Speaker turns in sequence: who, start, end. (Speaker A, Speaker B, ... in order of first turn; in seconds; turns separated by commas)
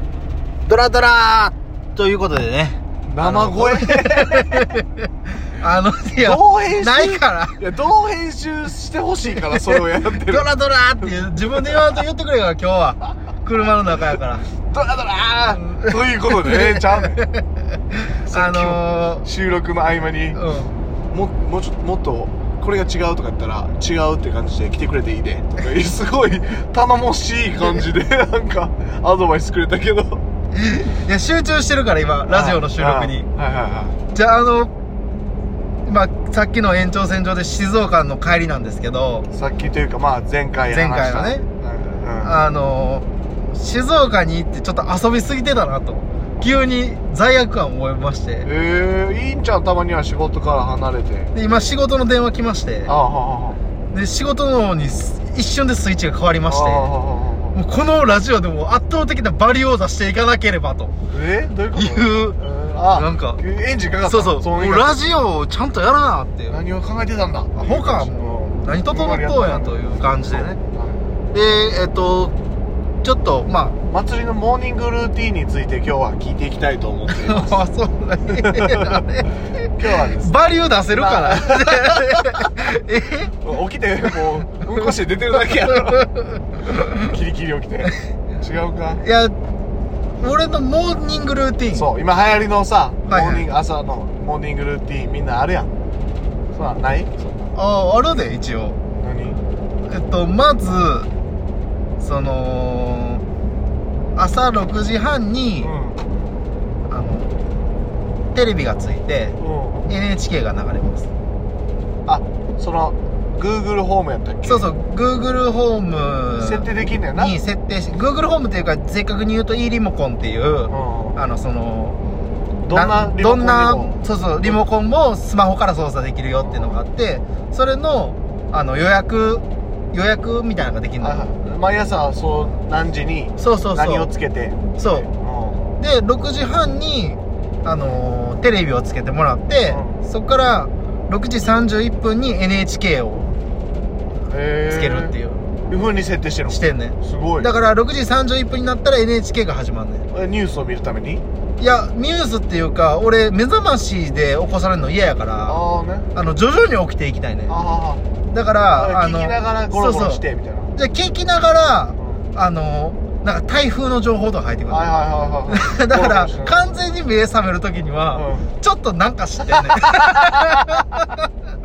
Speaker A: 0.7-7.6, Speaker B: 3.0-4.8, Speaker B: 6.1-12.1, Speaker A: 9.3-14.5, Speaker B: 13.9-17.2, Speaker A: 15.5-19.3, Speaker B: 18.2-20.4, Speaker A: 20.3-20.7, Speaker B: 21.1-30.2, Speaker A: 30.5-33.3, Speaker B: 32.2-34.0, Speaker A: 34.1-34.7, Speaker A: 35.8-39.3, Speaker B: 39.3-42.4, Speaker A: 40.7-41.5, Speaker A: 42.2-48.5, Speaker B: 48.4-51.3, Speaker A: 51.3-53.0, Speaker B: 52.9-53.6, Speaker A: 53.9-56.9, Speaker B: 56.5-57.6, Speaker A: 57.5-61.0, Speaker B: 61.1-65.0, Speaker A: 61.7-62.4, Speaker A: 62.9-63.4, Speaker A: 64.0-66.7, Speaker B: 66.5-71.1, Speaker A: 67.5-70.6, Speaker A: 71.3-72.4, Speaker A: 73.0-73.8, Speaker B: 73.9-77.7, Speaker A: 77.1-79.3, Speaker B: 78.3-79.2, Speaker B: 79.8-80.4, Speaker A: 80.1-83.3, Speaker B: 80.9-82.5, Speaker B: 83.3-86.1, Speaker A: 85.9-87.1, Speaker B: 87.0-89.0, Speaker A: 89.0-89.4, Speaker A: 90.2-91.9, Speaker B: 91.7-95.7, Speaker A: 93.1-93.5, Speaker B: 96.5-97.5, Speaker A: 97.5-98.8, Speaker B: 99.0-99.4, Speaker A: 99.8-101.1, Speaker A: 102.0-103.2, Speaker A: 104.2-105.7, Speaker B: 105.6-106.1, Speaker A: 106.9-107.5, Speaker A: 108.3-109.4, Speaker B: 109.4-109.9, Speaker A: 109.9-111.1, Speaker B: 112.1-114.7, Speaker A: 114.4-122.0, Speaker B: 116.4-117.4, Speaker B: 120.7-121.2, Speaker B: 122.6-124.6, Speaker A: 122.7-131.3, Speaker B: 126.4-126.8, Speaker B: 131.0-135.7, Speaker A: 133.4-134.1, Speaker A: 134.8-135.1, Speaker A: 135.8-143.3, Speaker B: 139.7-140.1, Speaker B: 144.3-147.5, Speaker A: 144.7-145.5, Speaker A: 146.5-150.1, Speaker B: 150.1-151.2, Speaker A: 151.6-155.6, Speaker B: 155.4-156.1, Speaker A: 156.1-157.6, Speaker B: 157.5-158.1, Speaker A: 158.2-160.2, Speaker B: 158.7-160.8, Speaker A: 160.8-164.9, Speaker B: 162.0-162.3, Speaker B: 164.7-166.7, Speaker A: 165.5-171.3, Speaker B: 168.1-168.6, Speaker B: 169.5-170.9